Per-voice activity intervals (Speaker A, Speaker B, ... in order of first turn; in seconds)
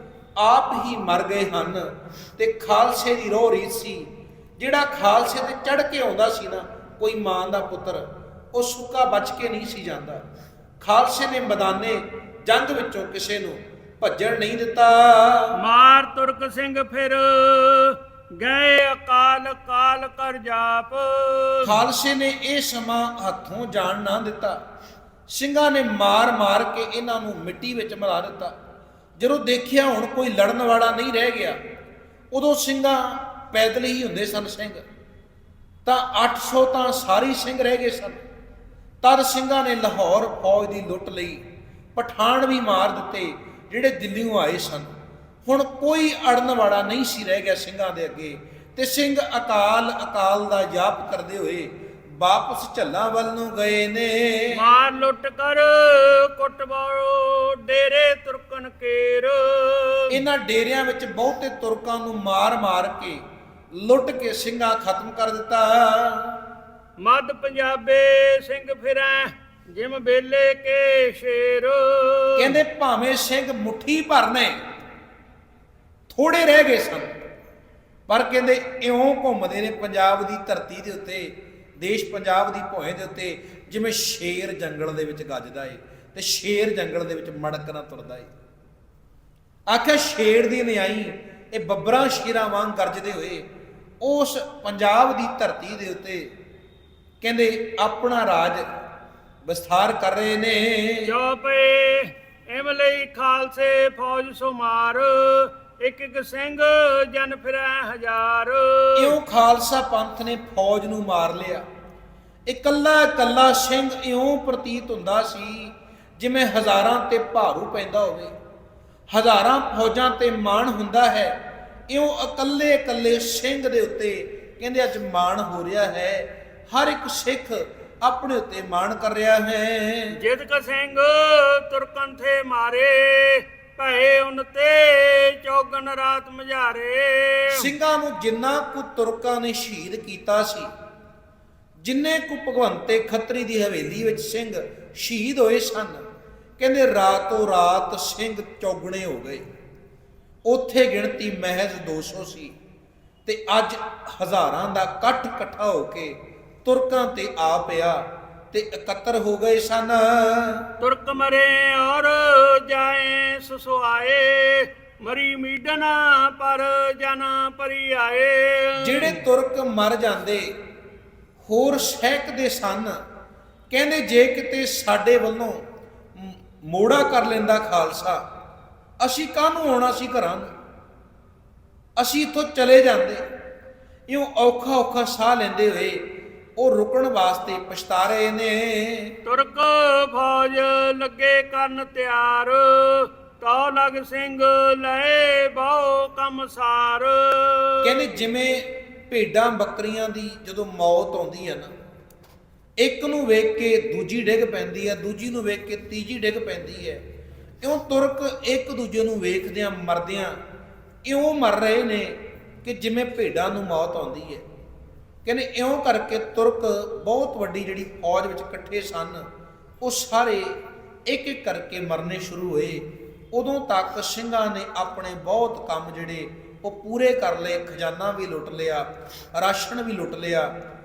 Speaker A: 0.4-10.2, 10.8-15.5, 21.6-24.6, 25.3-28.5, 29.2-31.6, 32.3-34.8, 35.8-38.2, 39.0-41.4, 42.0-44.9, 45.4-54.6, 60.1-63.2, 63.7-66.4, 72.4-74.6, 76.1-77.1, 78.1-88.3, 89.7-93.5, 94.0-96.3, 97.2-98.7, 99.4-101.1, 109.0-111.6, 112.5-118.3, 119.1-121.3, 121.9-130.2, 137.5-140.7, 141.8-146.1, 146.6-149.4, 150.4-152.5, 153.2-160.7, 168.8-170.5, 171.4-173.0, 173.7-175.6, 176.1-178.2, 179.0-180.5, 182.0-183.2, 184.1-186.0, 186.6-189.2, 197.8-201.7, 202.8-207.0, 207.6-210.4, 211.0-214.4, 215.2-219.2, 219.8-220.5, 221.1-230.5
Speaker B: 15.6-21.8, 54.5-60.2, 67.0-72.6, 101.0-109.2, 130.1-137.7, 160.8-169.2, 189.2-198.1